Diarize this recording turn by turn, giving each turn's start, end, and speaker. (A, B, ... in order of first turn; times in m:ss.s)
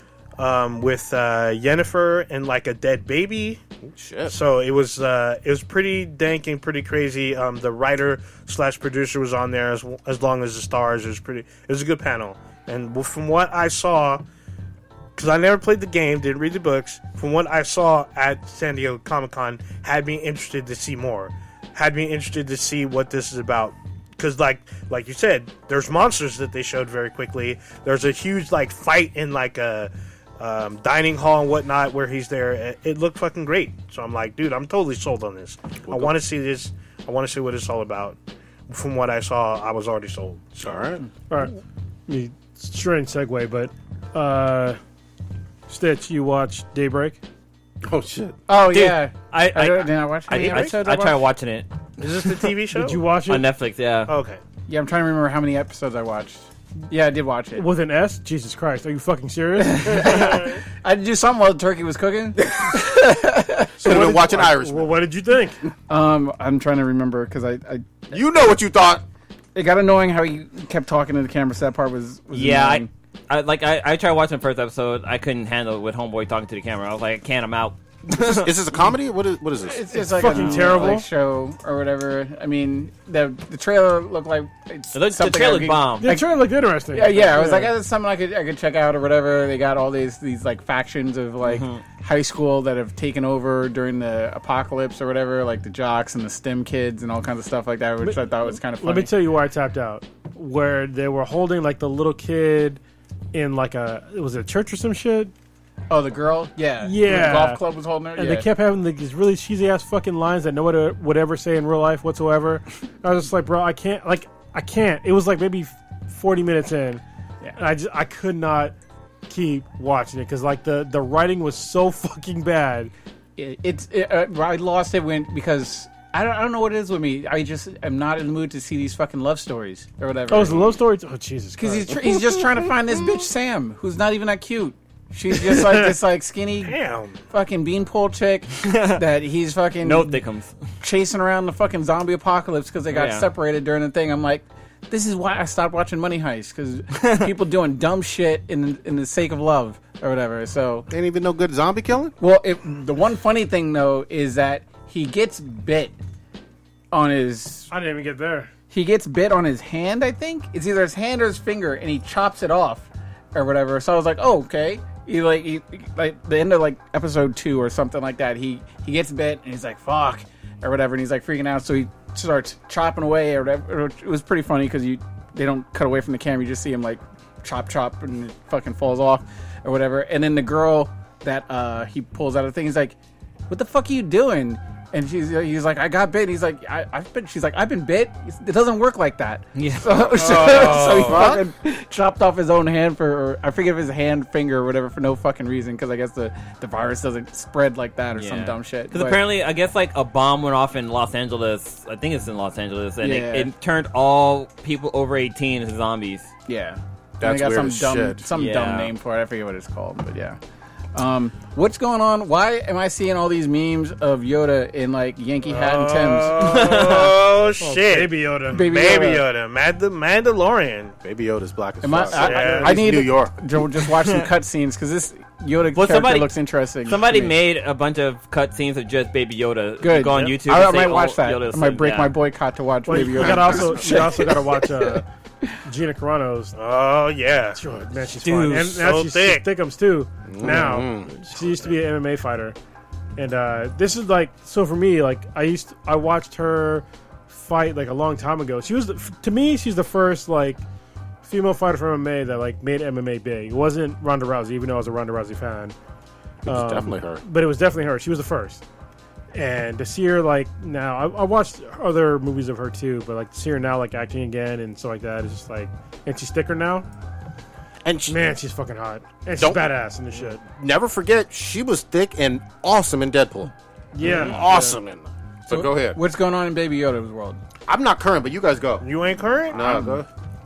0:00.4-0:03.6 A
0:03.8-0:04.4 B
0:04.3-0:14.2 A
0:15.2-0:38.2 A
0:35.9-0:36.2 B
0:38.7-0:40.8 A
0:40.6-0:41.0 B
0:41.3-0:41.6 C
0:42.1-0:44.8 C
0:45.7-0:47.2 C
0:47.9-0:48.4 B
0:48.5-0:51.2 D
0:48.7-0:51.7 E
0:50.3-0:50.7 A
0:52.0-0:53.1 A
0:52.8-0:53.4 C
0:53.3-0:54.1 E
0:54.1-0:54.4 A
0:54.7-0:57.7 D
0:57.6-1:00.4 C
0:59.6-1:04.1 D
1:03.8-1:04.9 B
1:03.8-1:05.6 C
1:05.9-1:08.2 D
1:08.1-1:09.0 B
1:09.5-1:12.9 D
1:12.3-1:18.5 E
1:18.2-1:20.6 B
1:19.6-1:39.1 D
1:19.9-1:21.1 C
1:24.9-1:26.2 E
1:26.0-1:27.7 C
1:31.4-1:31.8 E
1:38.0-1:42.8 C
1:43.3-1:45.3 C
1:45.9-1:48.5 D
1:46.8-1:47.6 C
1:48.2-1:57.0 C
1:57.6-1:58.7 C
1:59.3-2:02.9 C
2:03.4-2:10.7 D
2:10.3-2:12.0 C
2:11.6-2:16.8 D
2:16.6-2:17.2 A
2:17.3-2:20.2 D
2:18.6-2:19.0 E
2:19.8-2:20.5 E
2:20.8-2:30.9 D
2:22.9-2:23.3 E
2:27.0-2:27.3 E
2:30.9-2:32.2 B
2:32.2-2:36.0 D
2:36.9-2:37.7 D
2:37.7-2:38.5 C
2:38.7-3:03.0 D
3:03.5-3:19.2 D
3:09.6-3:11.2 E
3:10.2-3:11.3 A
3:10.2-3:11.3 B
3:18.2-3:26.3 E
3:23.0-3:23.5 D
3:26.5-3:30.4 D
3:27.2-3:28.2 B
3:28.4-3:28.9 E
3:31.0-3:36.9 D
3:35.5-3:41.0 A
3:36.4-3:37.2 E
3:37.6-3:38.6 C
3:38.5-3:39.3 D
3:41.0-3:43.3 B
3:41.8-3:47.4 D
3:42.1-3:42.7 A
3:42.2-3:42.6 C
3:45.8-3:46.3 E
3:46.8-3:52.2 E
3:49.8-3:55.6 D
3:52.8-3:55.0 C
3:55.6-3:56.6 C
3:56.6-3:57.6 A
3:57.6-4:02.6 C
3:58.2-3:58.8 E
3:58.6-3:59.5 A
4:00.3-4:01.3 B
4:03.2-4:10.6 C
4:11.2-4:15.8 C
4:16.4-4:17.2 B
4:16.5-4:18.6 C
4:19.3-4:26.9 C
4:27.8-4:28.3 B
4:28.1-4:30.4 C
4:29.4-4:29.7 B
4:30.5-4:36.0 B
4:33.9-4:34.8 C
4:35.5-4:37.4 D
4:37.7-4:38.9 B
4:38.8-4:39.8 A
4:39.5-4:40.1 B